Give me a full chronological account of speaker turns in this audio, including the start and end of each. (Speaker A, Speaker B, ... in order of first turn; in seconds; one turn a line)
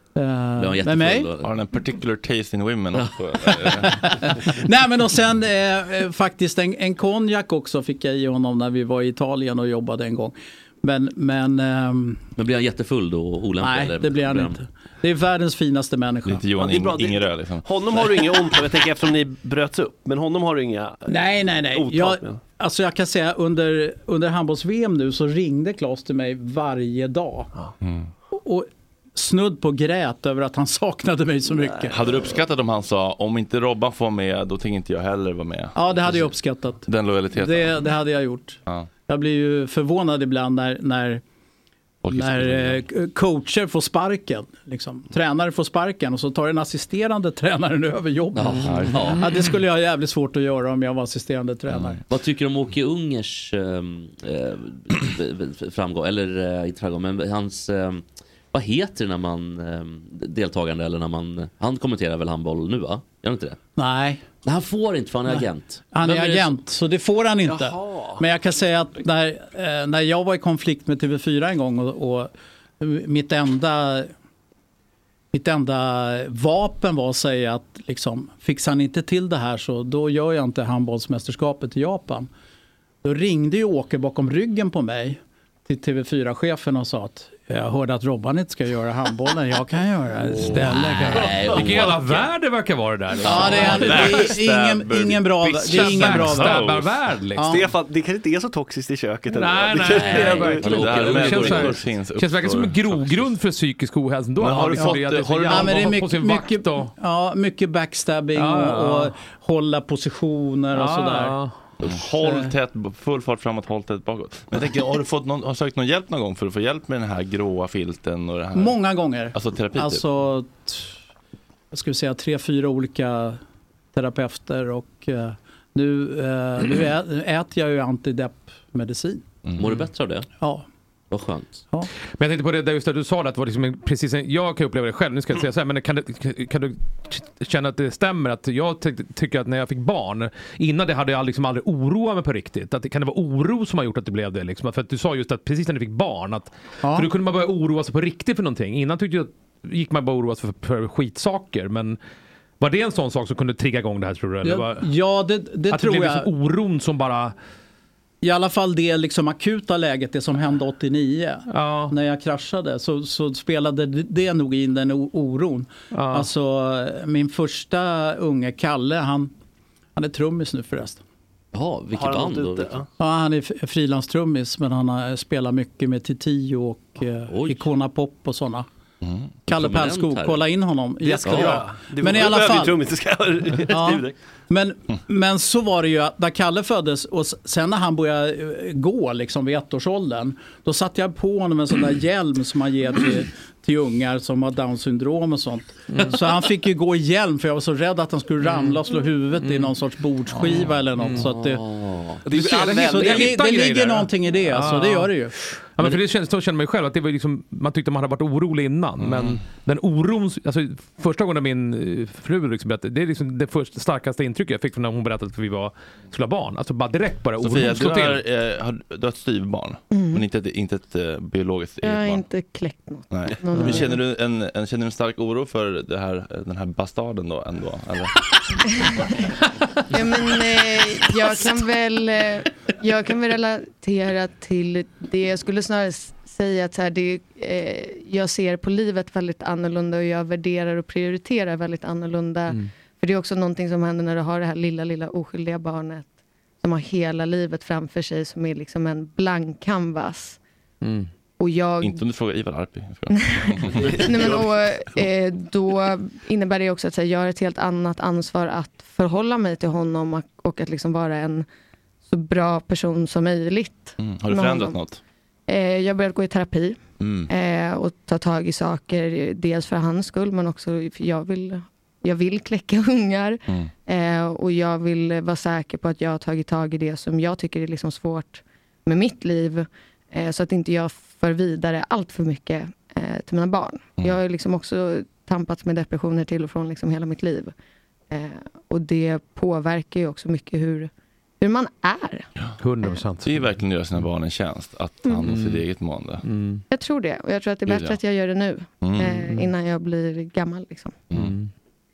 Speaker A: 0.1-1.3
Speaker B: 0.6-1.5
Speaker C: 1.4-4.1
Speaker B: 2.9-3.8
Speaker A: 3.9-12.2
Speaker B: 12.3-14.6
Speaker A: 13.6-16.4
Speaker C: 16.2-17.6
Speaker D: 16.6-22.4
Speaker A: 21.1-27.5
Speaker A: 28.3-32.1
Speaker C: 31.9-37.8
Speaker A: 35.7-41.2
Speaker C: 42.0-42.8
Speaker A: 42.1-52.0
Speaker B: 48.4-49.3
Speaker C: 48.5-49.2
Speaker C: 51.7-52.0
Speaker B: 52.1-63.6
Speaker A: 63.8-64.2
Speaker B: 64.4-66.5
Speaker A: 65.3-74.1
Speaker D: 67.4-68.2
Speaker A: 75.3-82.3
Speaker A: 83.0-91.4
Speaker E: 90.5-94.3
Speaker B: 90.6-92.3
Speaker A: 93.2-96.7
Speaker B: 93.2-94.0
Speaker C: 93.3-96.9
Speaker E: 95.4-97.6
Speaker A: 97.3-97.7
Speaker D: 97.4-100.7
Speaker E: 99.3-106.9
Speaker B: 99.8-101.8
Speaker C: 100.6-103.3
Speaker C: 104.4-106.0
Speaker A: 104.8-112.5
Speaker E: 108.3-109.1
Speaker E: 110.7-111.5
Speaker C: 111.8-118.8
Speaker A: 118.5-121.0
Speaker C: 119.3-120.0
Speaker A: 121.7-123.4
Speaker A: 123.9-129.2
Speaker C: 129.4-129.7
Speaker B: 129.6-130.3
Speaker A: 130.4-130.7
Speaker B: 131.1-131.6
Speaker E: 132.2-152.0
Speaker A: 146.8-147.1
Speaker E: 152.6-154.9
Speaker A: 154.4-156.3
Speaker E: 155.7-157.3
Speaker A: 158.2-169.3
Speaker E: 161.5-161.9
Speaker E: 165.9-166.3
Speaker A: 169.9-171.0
Speaker B: 171.5-172.7
Speaker D: 171.9-172.9
Speaker A: 173.0-178.7
Speaker B: 177.3-177.7
Speaker A: 179.4-182.8
Speaker B: 179.5-180.4
Speaker D: 181.0-184.1
Speaker B: 181.2-181.6
Speaker A: 183.7-201.6
Speaker E: 195.9-196.2
Speaker E: 198.4-198.8
Speaker E: 199.3-199.8
Speaker E: 200.3-201.3
Speaker B: 201.2-202.2
Speaker D: 202.3-203.4
Speaker A: 202.3-205.4
Speaker E: 202.3-218.2
Speaker C: 209.0-209.4
Speaker C: 217.4-222.2
Speaker F: 219.9-220.2
Speaker F: 221.8-223.9
Speaker C: 223.1-228.1
Speaker E: 223.6-223.8
Speaker F: 229.9-246.1
Speaker F: 246.6-250.4
Speaker E: 250.8-251.1
Speaker F: 251.4-252.0
Speaker C: 251.8-254.4
Speaker F: 253.1-261.5
Speaker D: 253.8-254.4
Speaker F: 262.1-264.8
Speaker C: 264.0-265.0
Speaker F: 265.5-287.6
Speaker C: 267.0-267.3
Speaker F: 288.1-290.9
Speaker F: 291.4-292.3
Speaker E: 292.6-293.4
Speaker C: 293.2-296.2
Speaker E: 295.3-295.6
Speaker E: 296.2-296.6
Speaker F: 296.7-301.0
Speaker C: 297.7-297.9
Speaker C: 298.8-299.2
Speaker E: 301.1-301.5